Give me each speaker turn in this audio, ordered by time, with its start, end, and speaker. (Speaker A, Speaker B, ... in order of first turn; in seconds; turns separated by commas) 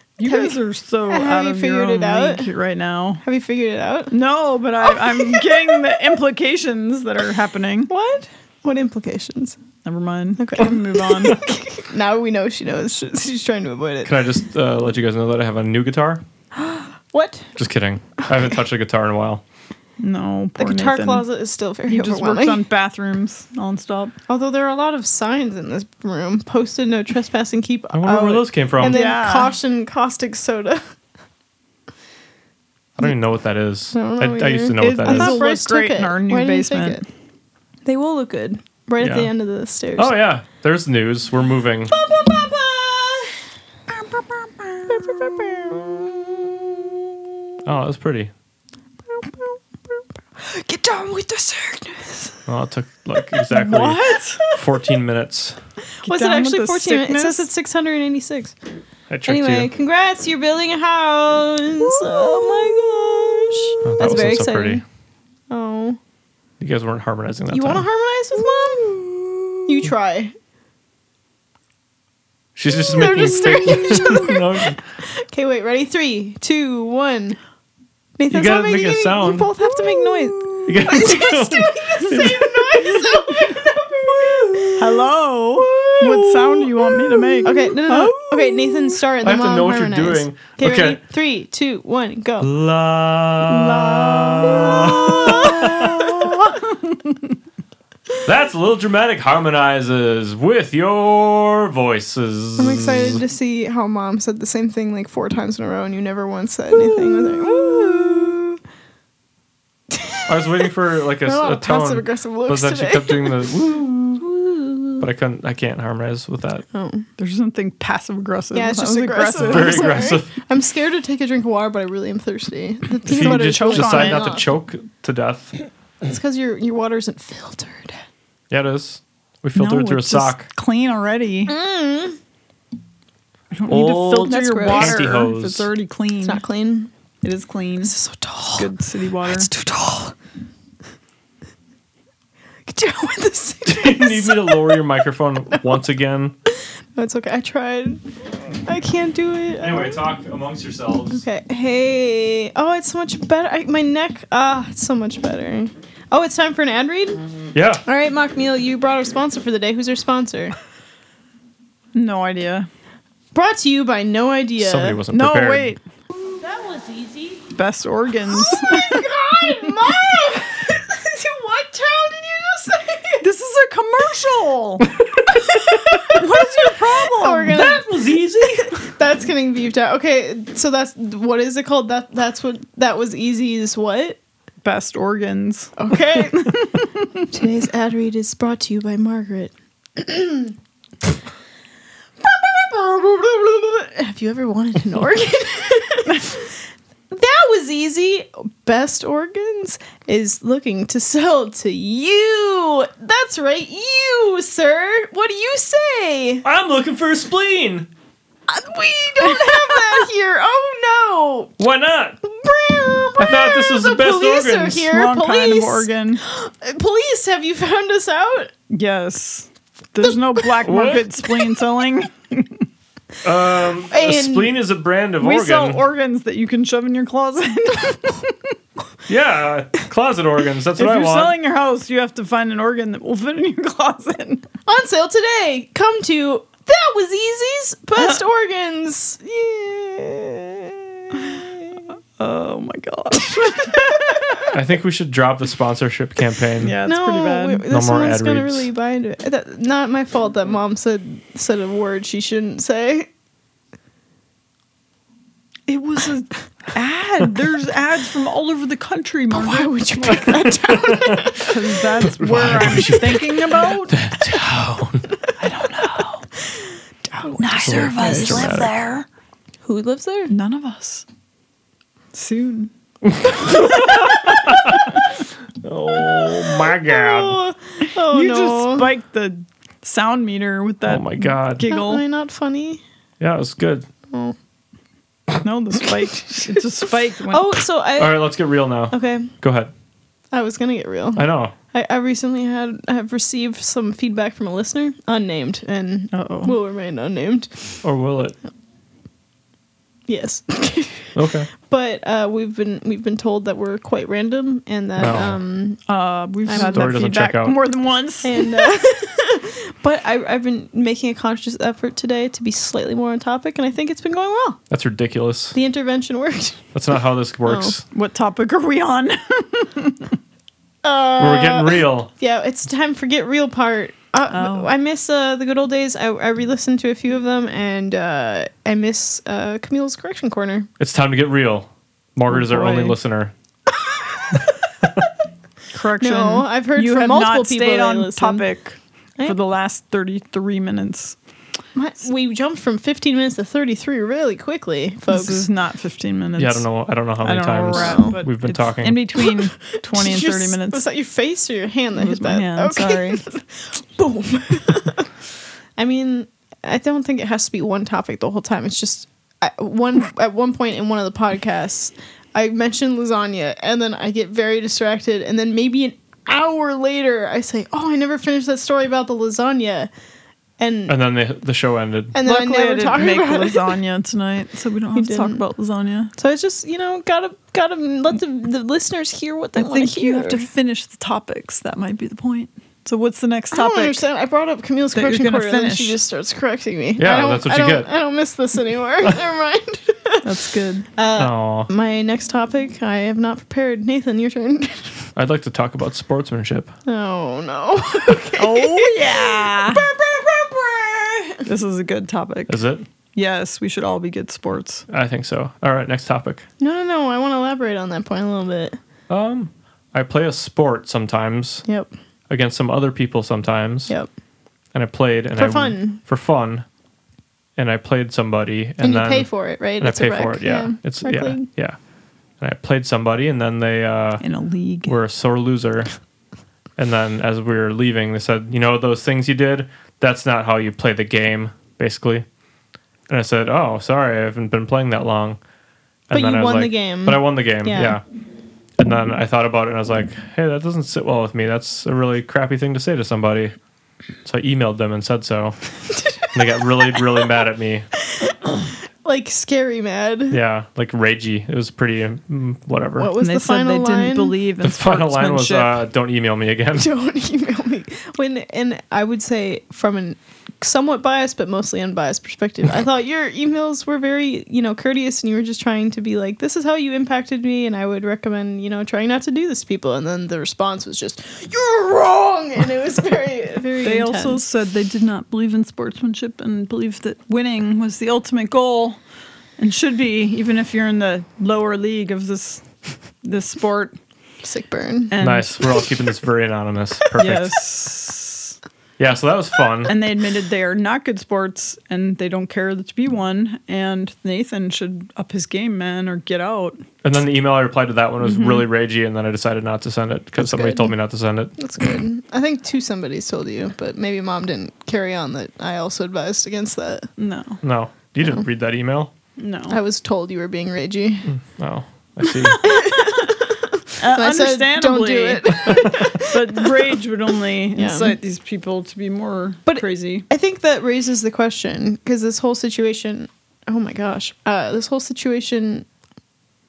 Speaker A: 0.2-3.2, Speaker B: 0.2-0.5, Speaker B: 1.1-2.5, Speaker B: 3.2-4.1, Speaker A: 4.1-7.9, Speaker B: 5.2-5.6, Speaker B: 7.9-9.6, Speaker A: 9.8-11.4, Speaker B: 10.4-14.1, Speaker C: 14.0-16.2, Speaker B: 16.6-17.5, Speaker C: 17.6-19.4, Speaker A: 20.0-21.2, Speaker B: 20.6-22.6, Speaker A: 21.9-24.1, Speaker B: 24.3-30.8, Speaker C: 27.9-29.0, Speaker A: 28.9-29.5, Speaker C: 33.0-35.4, Speaker B: 33.9-37.0, Speaker A: 34.8-37.0, Speaker B: 37.8-40.1, Speaker C: 39.0-39.3, Speaker C: 40.0-41.9, Speaker B: 41.9-43.4, Speaker A: 43.9-45.2, Speaker B: 44.9-46.9, Speaker C: 47.6-48.3, Speaker B: 49.2-49.4, Speaker B: 50.4-52.5, Speaker C: 52.5-55.6, Speaker A: 53.5-54.4, Speaker B: 56.0-58.5, Speaker A: 56.0-57.5, Speaker C: 59.1-59.7, Speaker B: 59.2-64.8, Speaker A: 62.1-62.8, Speaker C: 63.8-64.8, Speaker B: 65.5-66.0, Speaker C: 66.6-67.8, Speaker B: 67.5-68.9, Speaker A: 68.9-69.5, Speaker B: 69.7-70.3, Speaker C: 72.5-74.8, Speaker B: 72.8-77.4, Speaker B: 78.2-84.8, Speaker C: 78.3-79.5, Speaker A: 80.1-80.5, Speaker C: 80.7-83.0, Speaker A: 82.9-83.5, Speaker A: 84.8-89.0, Speaker B: 85.6-86.7, Speaker B: 87.4-92.5, Speaker C: 89.2-91.0, Speaker C: 92.4-96.5, Speaker B: 93.5-96.6, Speaker A: 94.7-95.7, Speaker C: 98.2-103.2, Speaker B: 102.6-108.6, Speaker A: 107.0-107.5, Speaker B: 109.9-110.3, Speaker C: 110.3-114.2, Speaker B: 111.2-113.6, Speaker B: 114.2-115.0, Speaker C: 115.0-116.6, Speaker B: 116.7-117.0, Speaker A: 117.2-120.0, Speaker B: 118.5-124.4, Speaker C: 119.4-120.3, Speaker A: 123.0-124.3, Speaker C: 123.1-125.5, Speaker B: 126.0-128.0, Speaker C: 128.5-130.5, Speaker A: 129.5-131.5, Speaker B: 131.5-132.2, Speaker A: 133.5-136.4, Speaker C: 133.7-135.7, Speaker B: 134.2-135.2, Speaker B: 136.2-136.9, Speaker A: 137.2-137.9, Speaker B: 137.8-138.7, Speaker A: 138.5-139.5, Speaker B: 139.2-140.1, Speaker B: 142.7-144.8, Speaker C: 143.7-146.3, Speaker B: 146.5-148.0, Speaker B: 148.6-150.0, Speaker C: 149.6-151.2, Speaker B: 151.1-157.2, Speaker C: 157.5-157.8, Speaker B: 157.8-160.5, Speaker A: 161.9-162.7, Speaker B: 163.3-165.0, Speaker C: 164.6-165.7, Speaker A: 165.1-165.8, Speaker B: 166.3-167.4, Speaker A: 167.5-169.1, Speaker B: 168.3-173.2, Speaker A: 173.2-174.9, Speaker B: 175.3-176.2, Speaker A: 176.1-177.7, Speaker B: 177.1-184.2, Speaker C: 177.5-178.8, Speaker A: 184.6-187.2, Speaker B: 185.8-186.6, Speaker B: 187.3-190.6, Speaker B: 192.2-196.6, Speaker B: 197.1-206.4, Speaker C: 206.4-207.9, Speaker B: 208.5-211.6, Speaker A: 209.2-209.9, Speaker C: 211.6-212.2, Speaker B: 212.2-218.5, Speaker C: 213.2-214.9, Speaker A: 214.9-216.2, Speaker A: 218.7-222.7, Speaker C: 220.6-221.1, Speaker C: 223.2-225.8, Speaker B: 223.9-224.5, Speaker A: 225.2-228.4, Speaker C: 229.1-231.3, Speaker A: 230.8-234.4, Speaker B: 234.7-241.8, Speaker A: 242.2-243.9, Speaker B: 243.6-244.3, Speaker C: 244.5-246.8, Speaker A: 246.6-247.6, Speaker B: 246.8-253.1, Speaker C: 247.7-248.7, Speaker A: 255.7-259.8, Speaker B: 259.3-261.6, Speaker C: 260.1-261.4, Speaker A: 261.4-263.9, Speaker C: 262.1-265.1, Speaker A: 265.4-266.3, Speaker B: 267.1-268.7, Speaker A: 267.4-269.1, Speaker C: 267.6-268.7, Speaker B: 269.6-270.3, Speaker A: 270.3-271.0, Speaker A: 272.1-272.7, Speaker C: 273.0-274.9, Speaker C: 275.6-277.4, Speaker B: 276.7-278.9, Speaker A: 277.9-282.0, Speaker C: 280.8-281.7, Speaker B: 281.6-282.8, Speaker C: 283.2-283.9, Speaker B: 284.1-284.4, Speaker A: 285.4-287.6, Speaker B: 287.3-288.4, Speaker C: 288.0-289.7, Speaker B: 288.9-289.3, Speaker B: 290.3-297.8, Speaker C: 291.1-291.5, Speaker A: 296.1-296.5, Speaker C: 297.8-298.4, Speaker B: 300.1-305.8, Speaker C: 301.1-301.5, Speaker C: 305.0-305.4, Speaker A: 305.9-308.7, Speaker B: 306.4-307.1, Speaker C: 306.5-307.6, Speaker B: 308.2-314.6, Speaker C: 314.7-315.6, Speaker B: 315.5-316.7, Speaker C: 316.7-317.8, Speaker B: 317.4-317.8, Speaker A: 317.9-320.1, Speaker B: 320.8-330.7, Speaker C: 321.2-322.1, Speaker A: 324.3-324.7, Speaker C: 330.8-333.3, Speaker A: 332.3-333.0, Speaker A: 335.7-341.1, Speaker B: 336.0-338.4, Speaker B: 341.8-345.4, Speaker A: 345.1-350.8, Speaker C: 346.4-349.1, Speaker B: 347.7-348.2, Speaker B: 349.7-355.1, Speaker A: 351.9-353.2, Speaker B: 355.8-369.9, Speaker B: 370.6-371.0, Speaker C: 370.9-372.1, Speaker B: 372.1-373.7, Speaker A: 372.2-376.1, Speaker B: 374.9-375.4, Speaker B: 376.2-380.4, Speaker A: 379.6-384.0, Speaker B: 383.5-390.2, Speaker A: 384.9-386.0, Speaker C: 387.0-387.9, Speaker A: 390.2-390.9, Speaker B: 390.9-395.1, Speaker C: 391.2-391.7, Speaker C: 395.1-396.7, Speaker B: 396.9-401.4, Speaker A: 398.4-399.8, Speaker A: 401.4-402.6, Speaker C: 402.5-402.9, Speaker A: 403.1-404.9, Speaker C: 404.9-406.4, Speaker B: 406.6-408.8, Speaker C: 409.1-411.6, Speaker C: 412.3-413.9, Speaker C: 414.7-416.6, Speaker B: 415.4-416.0, Speaker C: 417.6-421.8, Speaker B: 418.8-421.5, Speaker C: 422.4-424.2, Speaker A: 424.2-424.9, Speaker C: 424.8-425.9, Speaker C: 426.8-432.2, Speaker C: 433.1-435.4, Speaker C: 436.1-438.0, Speaker B: 436.1-438.0, Speaker C: 438.8-443.5, Speaker C: 444.2-445.6, Speaker B: 446.0-446.4, Speaker C: 446.3-447.9, Speaker B: 448.2-450.4, Speaker C: 450.3-453.1, Speaker B: 453.0-454.3, Speaker A: 453.2-455.8, Speaker C: 454.6-456.9, Speaker B: 456.7-474.4, Speaker A: 473.8-479.0, Speaker A: 479.6-482.6, Speaker A: 483.2-483.9, Speaker B: 484.4-485.1, Speaker A: 485.1-485.9, Speaker C: 485.2-487.5, Speaker A: 487.2-488.5, Speaker C: 489.0-489.9, Speaker A: 489.9-496.8, Speaker C: 497.0-501.5, Speaker A: 498.2-498.6, Speaker B: 500.4-500.9, Speaker B: 501.6-507.1, Speaker A: 507.2-507.6, Speaker C: 507.6-509.1, Speaker A: 509.4-509.8, Speaker B: 509.7-511.3, Speaker C: 511.3-512.6, Speaker B: 512.6-516.7, Speaker A: 514.0-520.2, Speaker B: 517.7-518.1, Speaker B: 519.6-525.9